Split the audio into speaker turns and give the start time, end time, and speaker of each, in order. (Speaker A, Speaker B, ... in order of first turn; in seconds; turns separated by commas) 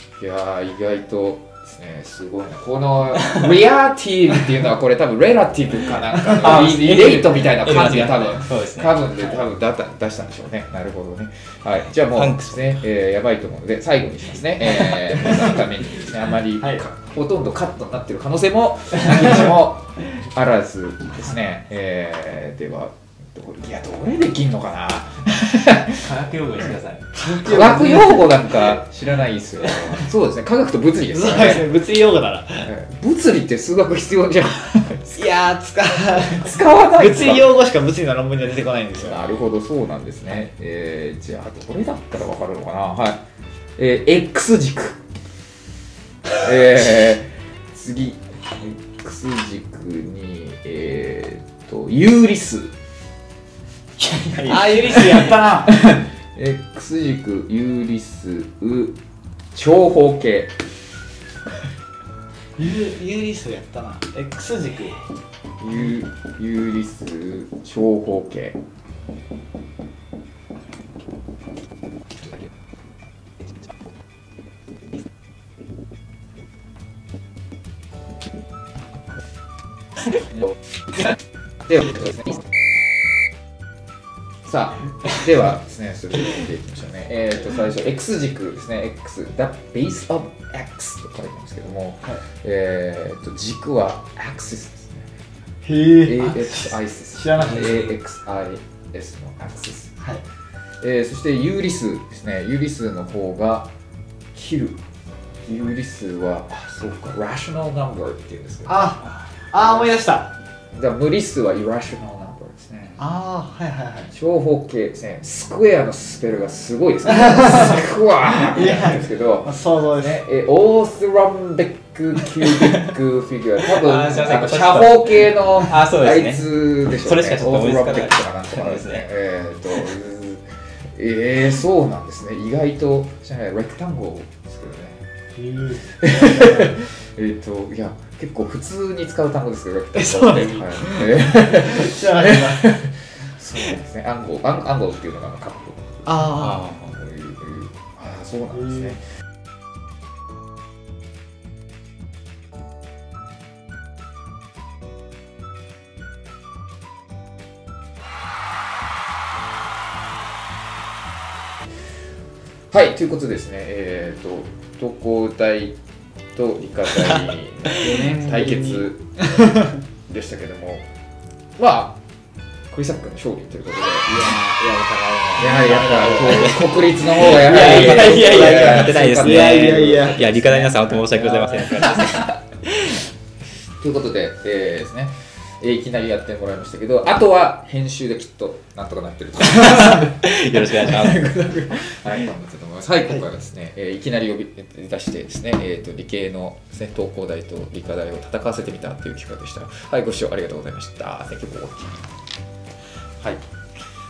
Speaker A: 0.1-26.1, Speaker B: 6.2-9.0, Speaker B: 12.0-12.7, Speaker C: 15.0-15.6, Speaker B: 25.9-27.1, Speaker C: 27.1-28.7, Speaker A: 27.2-31.7, Speaker B: 29.6-30.1, Speaker C: 31.1-32.7, Speaker A: 32.6-35.2, Speaker C: 35.1-39.4, Speaker A: 36.1-37.5, Speaker A: 39.0-43.2, Speaker A: 43.8-45.0, Speaker A: 46.3-52.7, Speaker B: 54.2-54.5, Speaker C: 54.4-55.8, Speaker A: 55.7-59.0, Speaker A: 59.5-60.6, Speaker C: 62.6-65.0, Speaker A: 65.6-68.6, Speaker A: 84.5-95.1, Speaker C: 95.6-97.8, Speaker A: 95.9-99.9, Speaker A: 100.8-103.7, Speaker A: 104.3-104.8, Speaker A: 105.4-110.0, Speaker C: 108.7-110.3, Speaker A: 110.7-113.0, Speaker C: 113.0-114.1, Speaker A: 114.1-135.0, Speaker C: 118.4-120.2, Speaker B: 123.7-129.1, Speaker C: 135.4-136.6, Speaker A: 136.0-149.0, Speaker C: 140.1-142.7, Speaker C: 146.1-146.6, Speaker B: 146.4-146.9, Speaker A: 162.7-165.8, Speaker A: 166.3-170.9, Speaker C: 167.8-168.9, Speaker A: 171.6-172.0, Speaker A: 172.7-174.3, Speaker C: 174.0-180.3, Speaker A: 175.4-181.6, Speaker B: 176.2-183.0, Speaker A: 183.7-202.1, Speaker B: 189.5-191.4, Speaker A: 203.2-203.4